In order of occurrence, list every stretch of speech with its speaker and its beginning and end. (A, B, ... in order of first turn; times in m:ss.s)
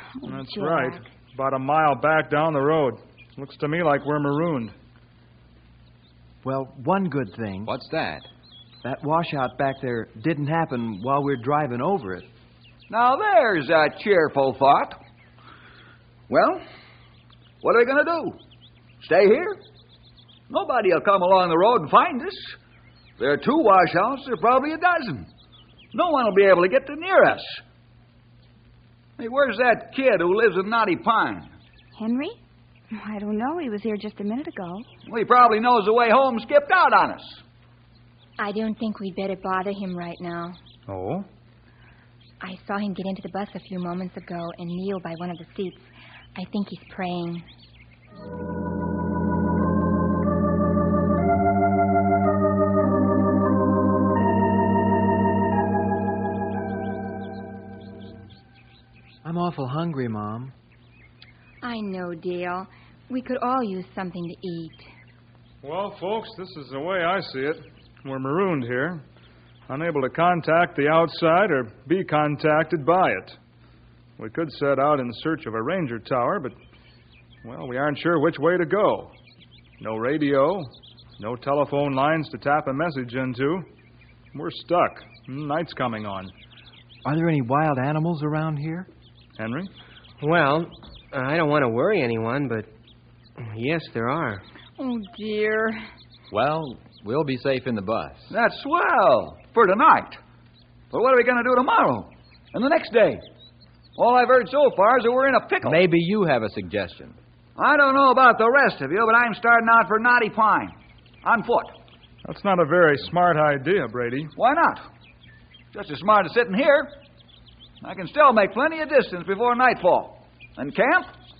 0:00.2-0:01.0 A
0:00.2-0:04.7 B
0:06.4-0:07.7 C
0:07.7-0:08.3 D
0:08.8-0:12.3 C
0:12.9-0:15.0 E
0:16.3-0:16.6 E
0:17.6-0:18.4 E
0:19.0-0:19.6 E
0:20.5-0:22.6 E
0:23.2-0:25.3 E
0:25.9-0:27.6 E
0:29.2-0:31.5 E
0:32.0-0:32.4 A
0:32.9-0:34.9 A
0:35.0-0:37.4 E
0:38.4-0:40.6 F
0:40.9-0:41.2 B
0:42.4-0:47.4 F
0:59.2-1:00.5 C
1:01.6-1:04.9 F
1:05.6-1:09.0 B
1:09.7-1:13.4 B
1:14.2-1:16.6 B
1:17.4-1:19.1 B
1:19.8-1:23.7 B
1:24.3-1:26.3 B
1:27.0-1:28.9 C
1:29.4-1:29.7 B
1:30.2-1:32.7 G
1:33.4-1:34.4 G
1:34.8-1:35.8 F
1:36.3-1:38.3 D
1:38.3-1:40.2 E
1:40.9-1:43.2 E
1:44.0-1:45.8 E
1:45.6-1:47.2 D
1:47.6-1:51.8 E
1:52.2-1:54.3 B
1:54.4-1:54.8 E
1:55.7-1:56.9 E
1:57.8-2:01.1 E